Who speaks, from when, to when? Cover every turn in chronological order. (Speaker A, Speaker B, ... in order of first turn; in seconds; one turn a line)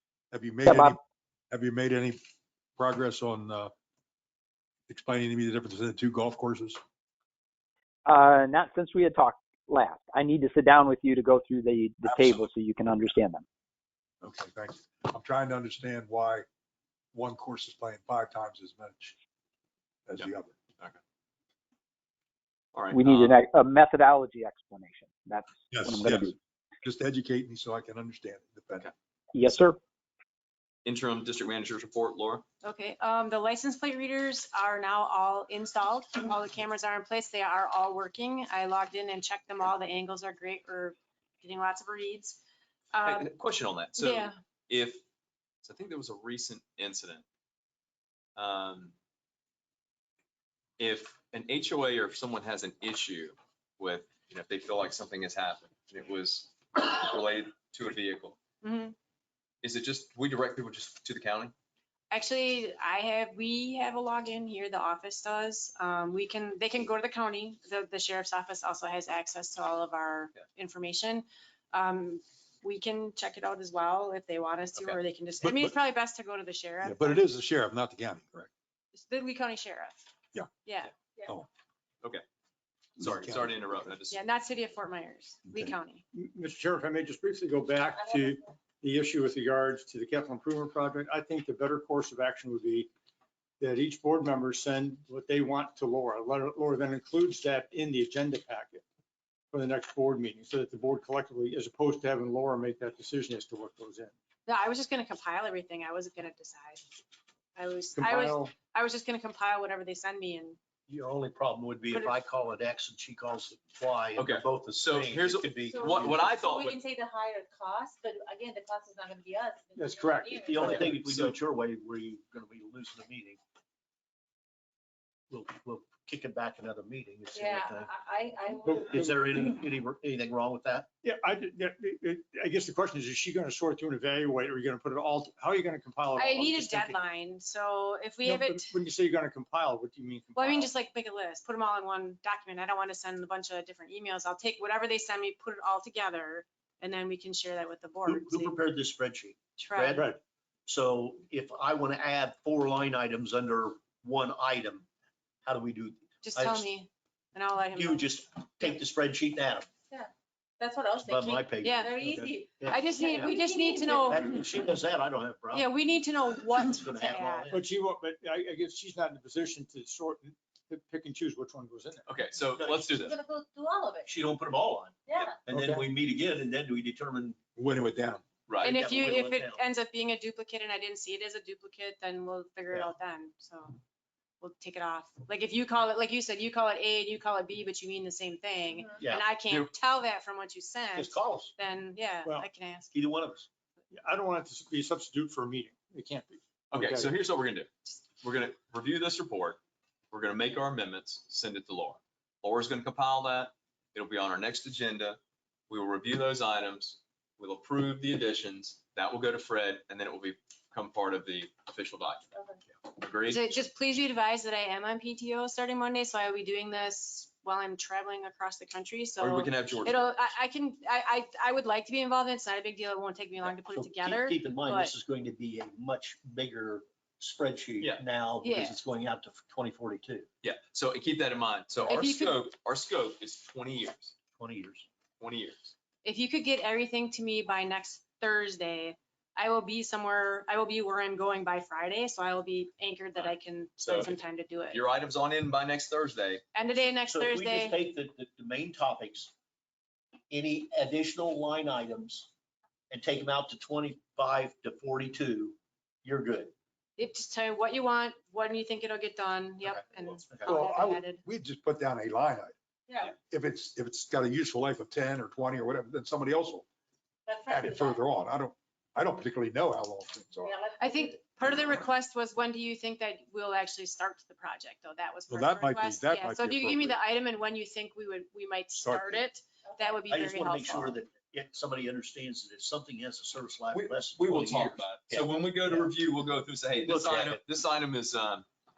Speaker A: 0.3-1.0
Speaker B: 0.7-1.0
Speaker A: 1.5-2.2
Speaker A: 2.8-3.7
Speaker A: 4.9-6.8
Speaker B: 8.1-13.4
Speaker A: 12.1-12.4
Speaker A: 14.2-16.5
Speaker A: 17.1-19.2
Speaker A: 20.1-20.6
Speaker C: 22.7-23.4
Speaker B: 22.9-26.4
Speaker A: 25.7-28.9
Speaker B: 29.3-29.8
Speaker C: 30.9-32.4
Speaker D: 32.6-42.4
Speaker D: 42.9-43.3
Speaker C: 43.0-45.0
Speaker D: 44.0-44.3
Speaker C: 45.6-47.2
Speaker C: 48.4-48.9
Speaker C: 50.8-58.4
Speaker D: 58.6-59.0
Speaker C: 59.6-61.5
Speaker D: 62.1-77.2
Speaker A: 75.4-75.8
Speaker A: 76.8-78.5
Speaker D: 78.9-80.0
Speaker D: 80.7-81.0
Speaker C: 83.0-84.2
Speaker A: 83.0-83.6
Speaker D: 84.1-86.0
Speaker A: 85.5-85.7
Speaker E: 86.1-92.9
Speaker F: 87.9-88.2
Speaker E: 93.6-98.8
Speaker E: 99.5-104.1
Speaker D: 104.5-106.8
Speaker D: 107.6-110.6
Speaker E: 108.0-108.5
Speaker G: 110.9-116.5
Speaker C: 114.2-116.8
Speaker F: 115.6-120.8
Speaker E: 119.8-121.3
Speaker G: 120.4-123.4
Speaker G: 125.3-127.9
Speaker F: 127.3-128.9
Speaker E: 128.6-129.3
Speaker G: 128.7-130.9
Speaker E: 131.0-137.0
Speaker D: 136.2-138.7
Speaker E: 138.2-140.7
Speaker D: 140.4-148.5
Speaker G: 148.1-150.1
Speaker D: 149.6-150.0
Speaker E: 149.9-150.2
Speaker G: 150.7-154.9
Speaker G: 155.4-156.7
Speaker D: 156.2-158.1
Speaker G: 157.8-159.7
Speaker F: 159.9-164.1
Speaker G: 161.0-163.4
Speaker D: 161.6-162.0
Speaker D: 162.7-164.4
Speaker G: 163.9-165.7
Speaker D: 165.5-167.5
Speaker G: 166.6-167.6
Speaker E: 167.5-172.1
Speaker C: 172.1-173.2
Speaker G: 172.5-172.9
Speaker F: 172.9-174.1
Speaker G: 174.1-177.4
Speaker F: 175.1-175.4
Speaker A: 175.5-175.8
Speaker A: 177.6-178.2
Speaker C: 178.5-178.8
Speaker D: 178.6-183.8
Speaker G: 178.6-179.6
Speaker D: 184.4-192.9
Speaker G: 189.0-189.3
Speaker G: 191.0-191.5
Speaker G: 192.9-193.5
Speaker E: 193.9-197.2
Speaker C: 196.7-199.6
Speaker C: 200.1-205.2
Speaker C: 205.7-212.3
Speaker C: 212.9-213.5
Speaker D: 213.3-224.9
Speaker C: 219.2-220.1
Speaker G: 223.4-230.3
Speaker D: 228.4-228.8
Speaker C: 230.4-234.2
Speaker D: 231.9-232.4
Speaker G: 234.4-234.9
Speaker C: 235.2-235.7
Speaker D: 236.0-244.9
Speaker C: 243.2-244.2
Speaker C: 244.7-246.4
Speaker D: 246.6-247.8
Speaker G: 247.1-249.3
Speaker G: 250.3-252.3
Speaker G: 252.9-256.5
Speaker D: 257.0-261.2
Speaker G: 259.8-260.6
Speaker A: 260.5-262.6
Speaker F: 262.9-263.1
Speaker A: 263.1-266.7
Speaker F: 267.3-268.0
Speaker A: 267.5-270.5
Speaker F: 270.4-271.3
Speaker D: 270.8-281.0
Speaker A: 275.3-277.0
Speaker A: 278.8-279.2
Speaker F: 279.6-279.9
Speaker G: 280.1-285.9
Speaker C: 283.7-288.5
Speaker G: 286.8-287.4